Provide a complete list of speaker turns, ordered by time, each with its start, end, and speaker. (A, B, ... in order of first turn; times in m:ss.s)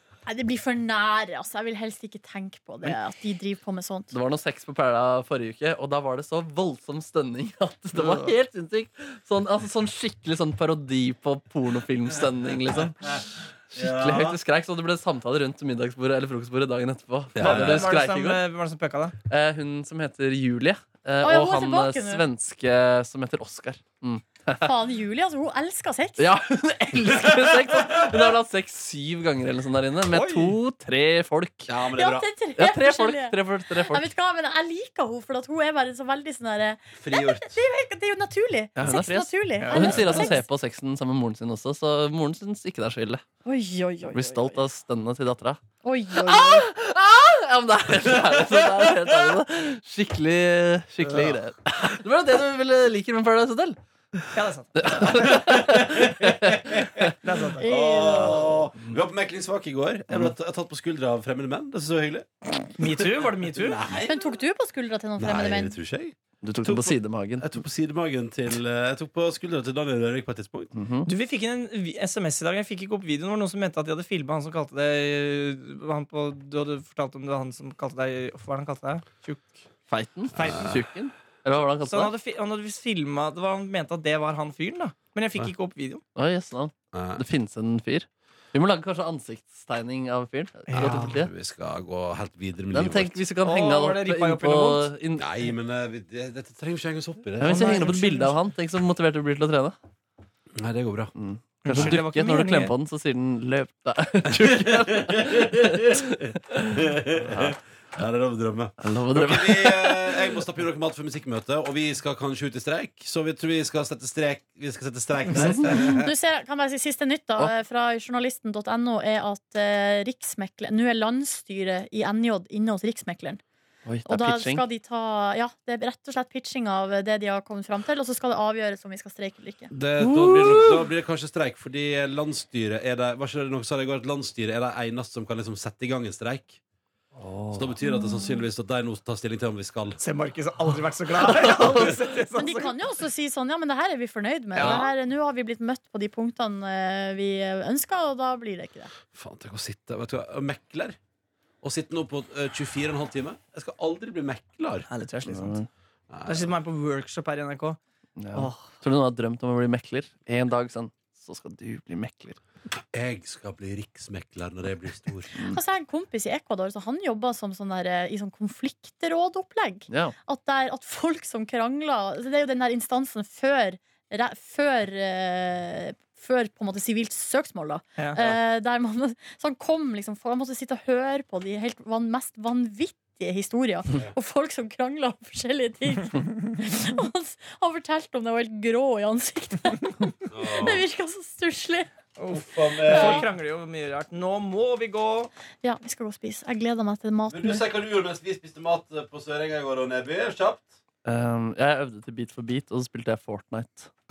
0:00.2-0:04.1 A
0:04.1-0:18.4 B
0:08.0-0:08.3 C
0:13.7-0:14.4 D
0:17.4-0:17.9 D
0:17.4-0:19.1 C
0:19.3-0:24.7 B
0:21.2-0:22.2 A
0:24.6-0:26.3 A
0:26.2-0:31.8 B
0:30.1-0:30.6 C
0:31.7-0:32.3 D
0:31.9-0:40.4 A
0:32.6-0:34.1 B
0:37.0-0:37.6 D
0:38.8-0:43.2 B
0:39.6-0:40.4 C
0:43.4-0:44.6 A
0:44.1-0:45.6 B
0:45.8-0:46.7 A
0:46.2-0:54.2 B
0:48.1-0:49.3 D
0:51.0-0:51.3 C
0:54.3-0:55.1 C
0:54.8-0:57.0 B
0:55.0-0:57.1 D
0:57.2-0:57.7 C
0:57.6-0:58.6 A
0:57.6-1:04.4 D
1:02.8-1:03.8 C
1:03.9-1:05.8 A
1:05.2-1:10.7 D
1:06.4-1:07.6 B
1:10.7-1:11.1 B
1:11.1-1:19.6 C
1:19.9-1:22.1 B
1:20.4-1:20.7 C
1:20.4-1:20.8 D
1:21.8-1:26.0 C
1:26.2-1:31.3 B
1:26.9-1:27.2 D
1:30.7-1:31.2 C
1:30.8-1:33.2 D
1:32.7-1:35.2 B
1:33.4-1:34.9 C
1:35.2-1:38.0 D
1:37.4-1:39.8 B
1:37.4-1:38.4 C
1:40.6-1:41.1 D
1:41.2-1:46.6 B
1:41.6-1:42.7 C
1:41.7-1:42.0 D
1:44.4-1:56.1 D
1:47.3-1:47.6 B
1:48.8-1:50.2 B
1:55.6-2:03.4 A
2:03.9-2:04.6 B
2:04.0-2:09.7 A
2:09.7-2:16.6 D
2:10.0-2:10.9 B
2:17.2-2:17.8 B
2:17.5-2:20.0 D
2:18.0-2:18.2 A
2:20.0-2:22.8 C
2:22.3-2:28.9 A
2:24.6-2:24.9 C
2:29.1-2:31.0 D
2:31.6-2:34.9 D
2:34.9-2:35.6 C
2:35.2-2:35.7 B
2:36.1-2:36.5 D
2:36.2-2:37.8 C
2:38.2-2:42.4 B
2:38.3-2:38.6 C
2:42.9-2:45.3 D
2:45.4-3:11.9 A
2:49.9-2:50.2 B
3:10.3-3:10.8 D
3:12.2-3:15.3 C
3:12.3-3:13.2 D
3:12.9-3:13.2 A
3:15.6-3:17.6 A
3:17.3-3:20.7 D
3:21.0-3:23.9 B